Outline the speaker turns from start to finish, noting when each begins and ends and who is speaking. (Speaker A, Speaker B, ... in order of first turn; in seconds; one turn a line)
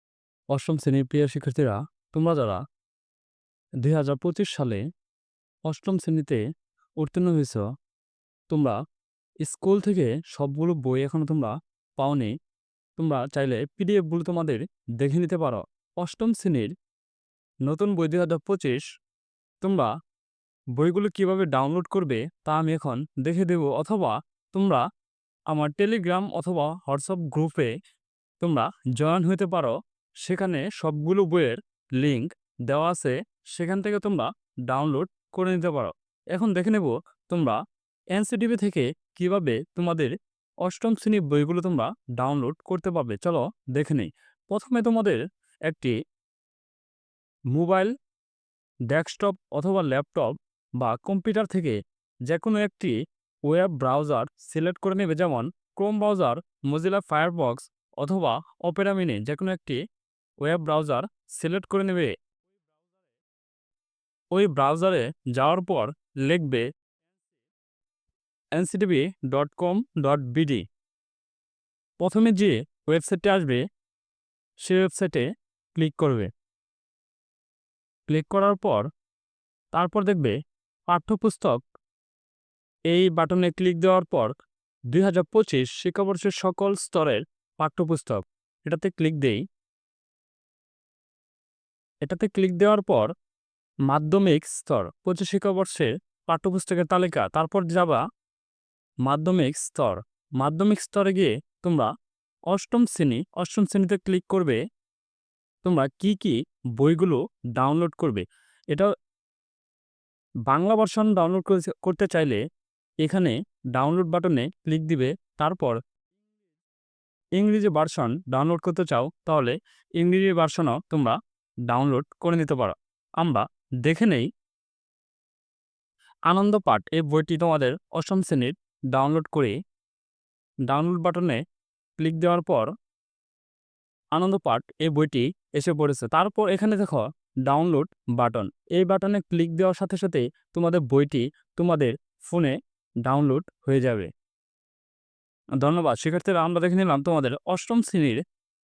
Speaker A: 0.5-2.6
Speaker A: 3.8-4.8
Speaker A: 5.7-6.4
Speaker A: 7.0-7.7
Speaker A: 8.5-8.8
Speaker A: 9.4-12.3
Speaker A: 13.0-16.7
Speaker A: 17.6-18.8
Speaker A: 19.6-19.9
Speaker A: 20.8-24.8
Speaker A: 25.5-27.7
Speaker A: 28.4-37.6
Speaker A: 38.1-45.9
Speaker A: 47.5-47.9
Speaker A: 48.9-51.8
Speaker A: 52.3-53.0
Speaker A: 53.5-59.8
Speaker A: 60.4-62.1
Speaker A: 64.3-66.7
Speaker A: 68.5-70.7
Speaker A: 72.0-73.6
Speaker A: 74.6-76.3
Speaker A: 78.1-78.9
Speaker A: 79.7-80.3
Speaker A: 80.9-81.6
Speaker A: 82.9-84.3
Speaker A: 84.9-89.4
Speaker A: 92.0-93.1
Speaker A: 93.9-98.0
Speaker A: 99.0-101.9
Speaker A: 102.5-104.6
Speaker A: 105.6-108.9
Speaker A: 110.5-112.4
Speaker A: 113.0-115.8
Speaker A: 117.4-124.3
Speaker A: 126.3-129.6
Speaker A: 130.7-131.4
Speaker A: 132.0-132.7
Speaker A: 134.2-144.1
Speaker A: 145.6-148.2